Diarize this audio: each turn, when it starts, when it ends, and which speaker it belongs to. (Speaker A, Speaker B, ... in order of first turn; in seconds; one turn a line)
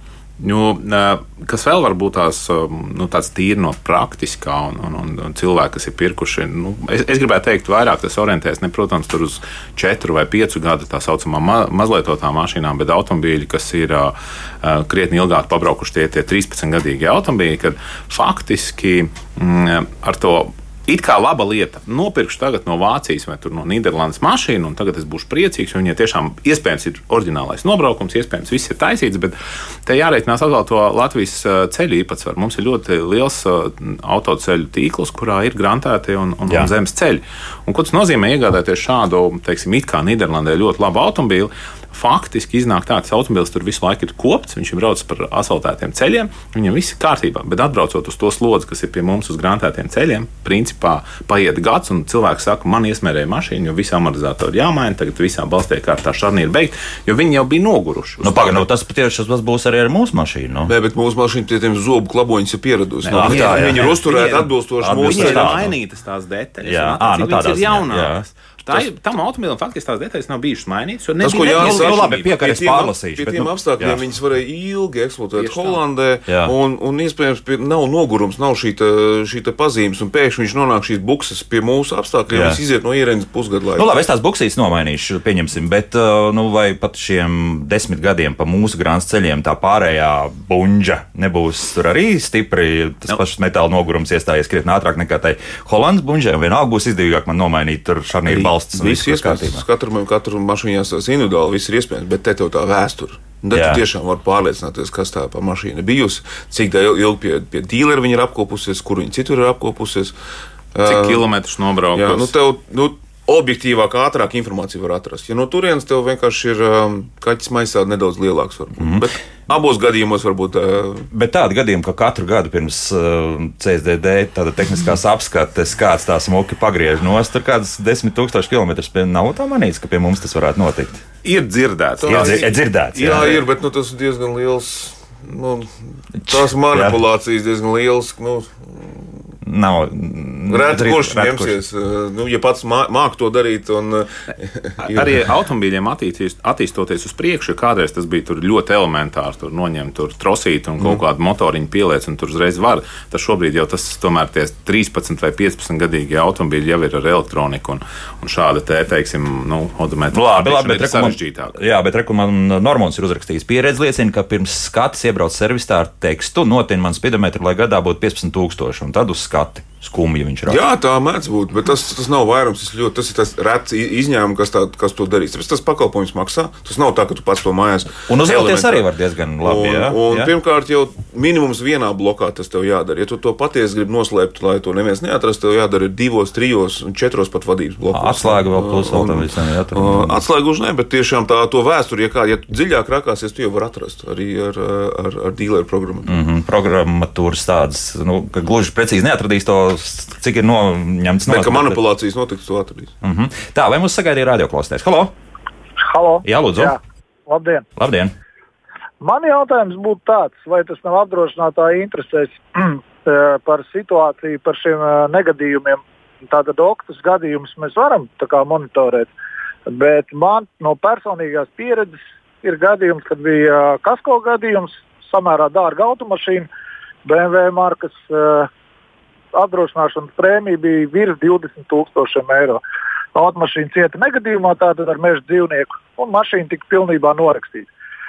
Speaker A: 0.4-58.6
Speaker B: 36.5-36.7
Speaker B: 58.2-60.7
Speaker C: 60.6-65.6
Speaker A: 63.0-72.3
Speaker B: 63.1-64.0
Speaker B: 64.8-65.7
Speaker B: 66.6-68.2
Speaker C: 71.2-83.9
Speaker B: 71.4-74.0
Speaker A: 75.3-75.8
Speaker B: 76.3-76.5
Speaker B: 82.3-82.6
Speaker B: 83.8-99.6
Speaker C: 98.3-110.1
Speaker B: 103.5-103.8
Speaker C: 110.7-111.2
Speaker A: 110.8-112.3
Speaker C: 111.9-121.1
Speaker B: 118.8-119.1
Speaker B: 121.1-131.0
Speaker A: 131.2-133.4
Speaker C: 132.0-135.7
Speaker B: 132.1-133.4
Speaker B: 136.2-137.0
Speaker C: 136.3-139.0
Speaker B: 139.4-141.6
Speaker C: 140.5-145.2
Speaker A: 144.8-161.6
Speaker B: 160.1-170.6
Speaker C: 170.5-178.8
Speaker B: 178.1-180.3
Speaker C: 179.4-196.2
Speaker B: 187.9-190.2
Speaker B: 196.1-201.8
Speaker C: 201.3-202.9
Speaker B: 203.0-205.1
Speaker D: 205.8-207.6
Speaker B: 206.2-206.8
Speaker B: 207.8-208.1
Speaker D: 209.0-219.1
Speaker D: 219.7-226.5
Speaker D: 227.1-228.5
Speaker D: 229.3-232.6
Speaker D: 233.1-237.7